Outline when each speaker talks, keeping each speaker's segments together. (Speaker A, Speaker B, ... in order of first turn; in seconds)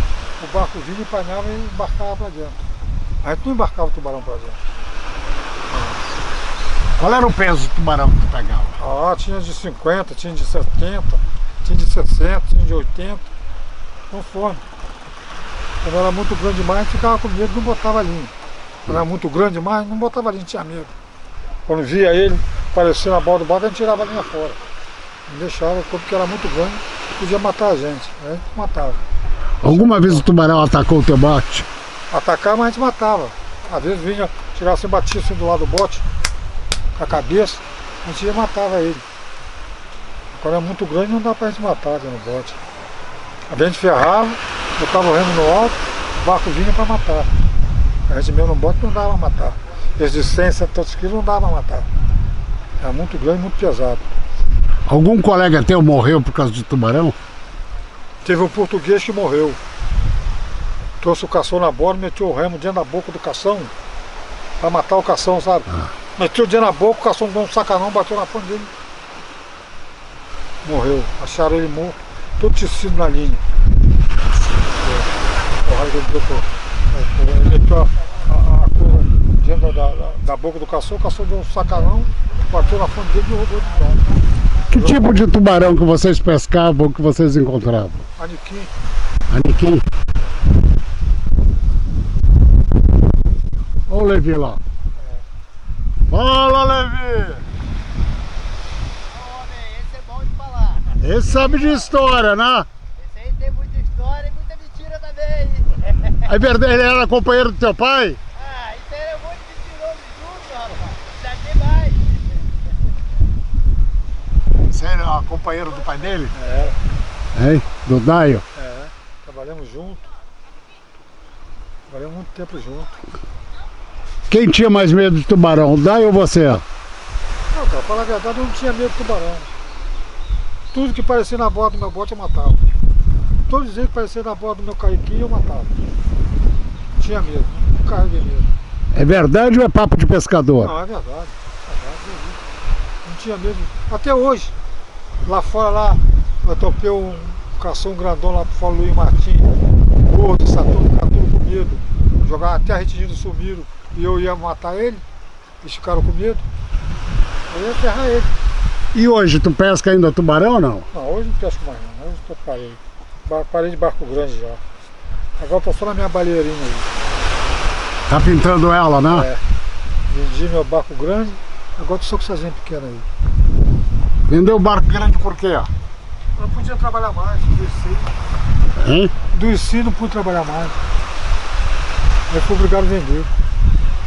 Speaker A: 0.4-2.6, 3.2-4.6, 8.8-13.3, 14.1-14.6, 15.8-18.3, 18.9-20.9, 21.7-24.6, 25.3-29.0, 29.6-30.2, 32.1-36.0, 37.0-39.0, 40.3-42.6, 43.5-47.3, 48.1-51.9, 52.8-54.0, 58.2-59.6, 61.0-63.7, 64.6-68.7, 70.6-73.4, 74.8-75.1, 75.6-84.2, 84.7-85.1, 88.2-88.7, 116.3-116.8, 118.5-120.0, 121.9-122.9, 127.5-129.5, 130.7-132.7, 133.5-135.7, 137.0-138.5, 140.6-142.4, 143.0-144.5, 145.2-155.0, 155.6-156.4, 157.5-158.3, 160.9-164.6, 165.4-166.9, 169.1-169.4, 170.1-173.1, 176.4-178.1, 179.3-180.8, 182.3-183.3
Speaker B: 7.0-8.8, 29.6-31.7, 54.9-57.1, 84.7-88.0, 89.3-89.8, 93.9-94.6, 96.1-97.5, 100.9-102.7, 106.2-108.2, 114.7-116.3, 117.3-118.4, 124.3-126.6, 138.9-140.7, 158.9-160.9, 168.1-169.3, 174.3-175.7, 178.8-179.1
Speaker C: 99.2-100.9, 103.0-105.9, 108.4-112.2